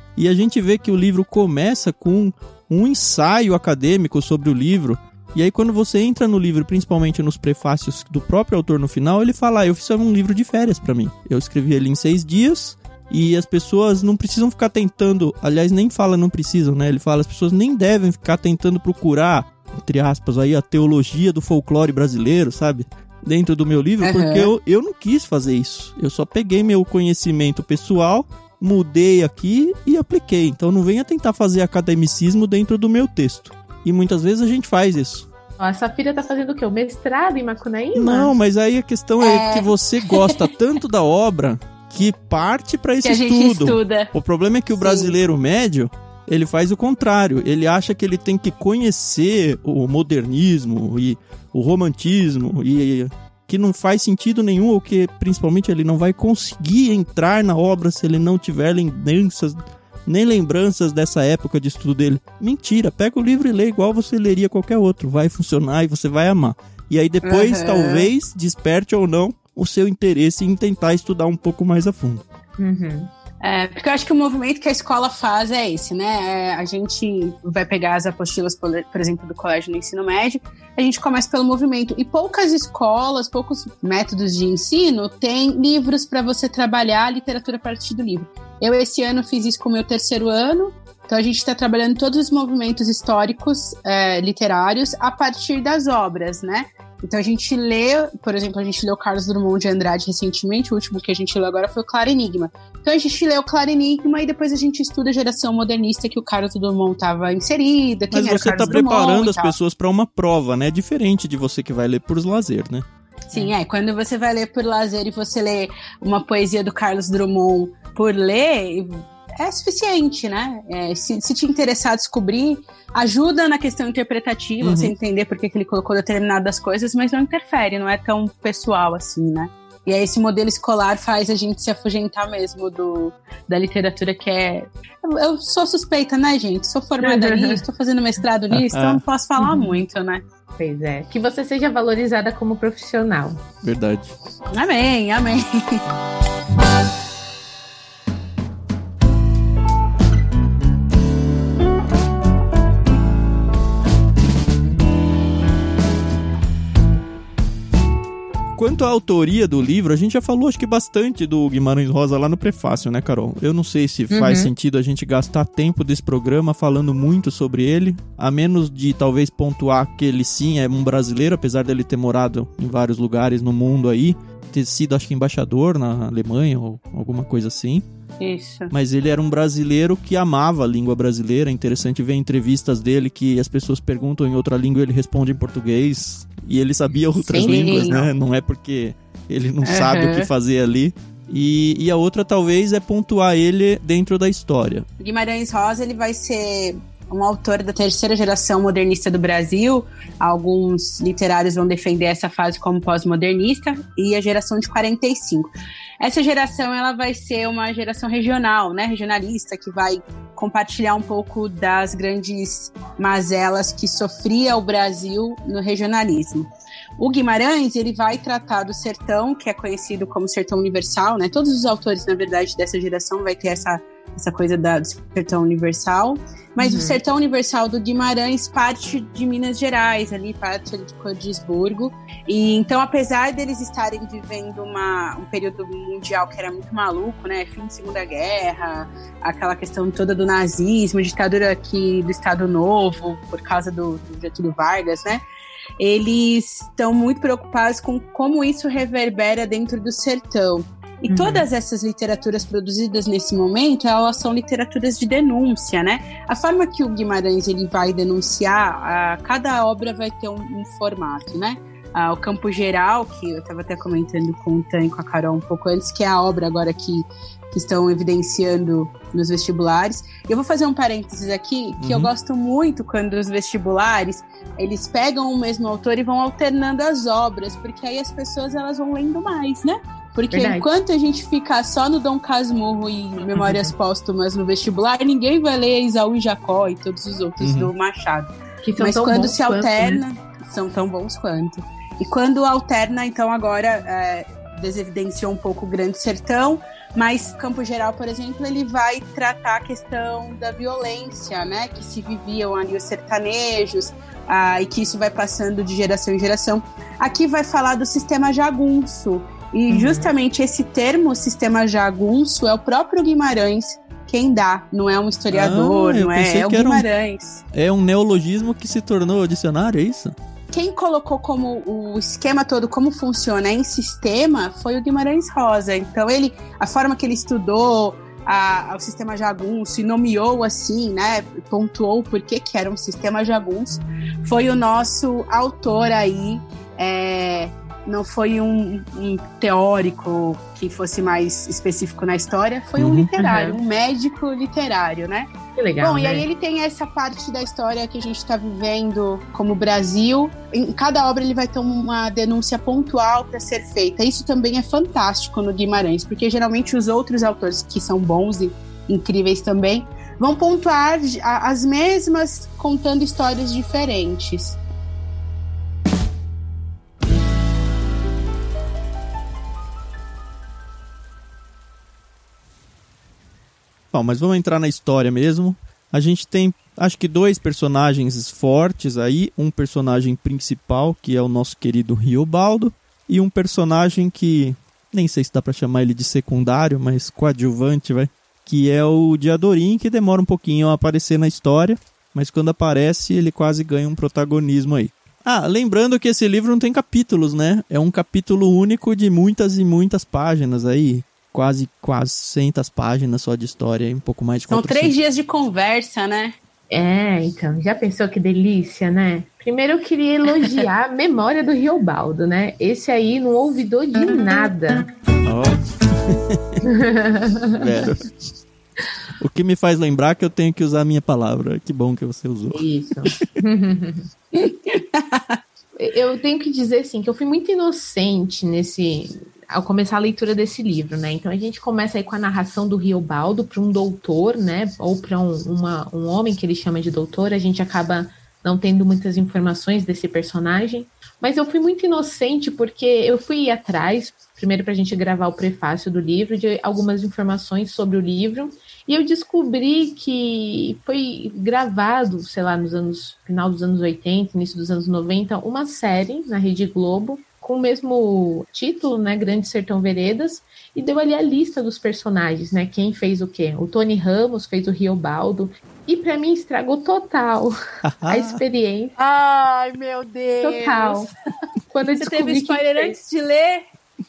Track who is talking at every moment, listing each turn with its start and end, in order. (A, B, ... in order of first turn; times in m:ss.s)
0:00.2-0:35.3 A
0:24.0-0:24.5 B
0:35.6-0:38.3 C
0:37.9-1:12.2 A
0:39.2-0:40.4 B
0:43.0-0:44.1 B
0:44.8-0:45.2 B
1:07.2-1:08.1 B
1:12.6-1:13.1 C
1:13.4-1:49.5 B
1:48.1-1:52.8 A
1:53.3-2:20.2 B
2:04.6-2:04.9 A
2:17.0-2:17.6 C
2:18.5-2:19.0 A
2:19.4-2:19.8 C
2:20.6-2:23.4 C
2:23.6-2:24.1 A
2:24.5-2:25.8 B
2:38.5-2:57.8 A
2:44.1-2:44.5 C
2:58.2-2:58.7 B
2:58.7-3:14.8 A
3:07.2-3:08.0 C
3:07.4-3:08.1 B
3:09.6-3:10.3 B
3:15.0-3:36.5 B
3:37.0-4:05.2 B
3:46.6-3:47.0 C
4:05.8-5:17.4 B
4:11.1-4:11.5 C
4:31.8-4:32.1 A
4:40.3-4:40.7 C
4:43.4-4:43.7 C
4:47.4-4:47.7 A
4:48.6-4:50.0 C
5:09.7-5:10.1 C
5:15.3-5:16.9 A
5:17.5-5:20.2 A
5:20.5-5:45.3 B
5:42.8-5:43.1 A
5:43.2-5:43.6 C
5:45.6-5:46.3 C
5:45.8-6:04.6 B
6:13.9-6:44.9 A
6:44.5-6:46.4 B
6:46.7-6:54.9 C
6:55.2-6:56.4 A
6:56.6-6:57.9 C
6:57.6-6:58.1 A
6:59.2-7:02.6 A
7:02.5-7:04.1 C
7:04.3-7:05.4 B
7:05.8-7:47.5 C
7:47.8-7:48.4 A
7:48.0-7:48.9 C
7:49.0-7:51.1 B
7:50.4-7:51.1 C
7:51.7-7:53.0 C
7:51.9-7:53.6 B